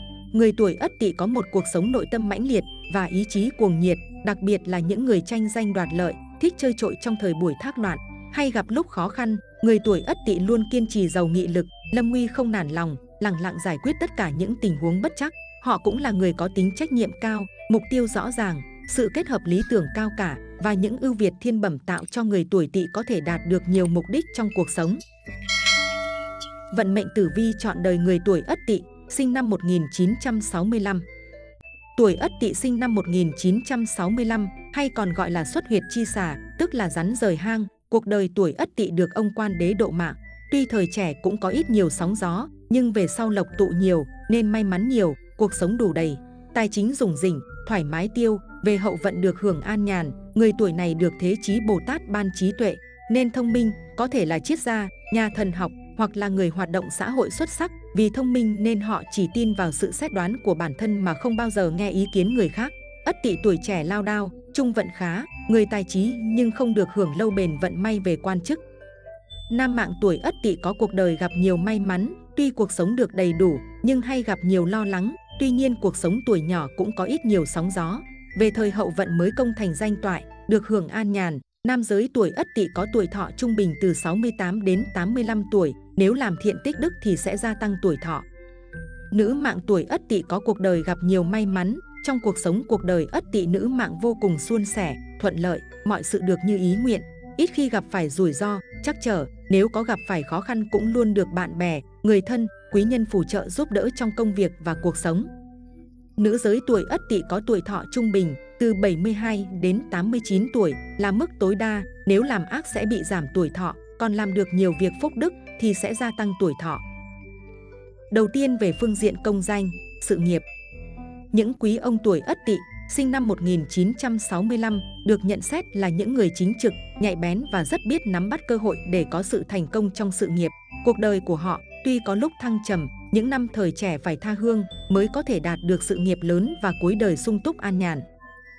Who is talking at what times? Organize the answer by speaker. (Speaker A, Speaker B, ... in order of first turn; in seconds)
Speaker A: 0.3-25.0, 26.7-31.1, 32.0-68.6, 69.5-88.2, 89.1-105.3, 106.2-116.8, 118.1-120.4, 121.3-138.1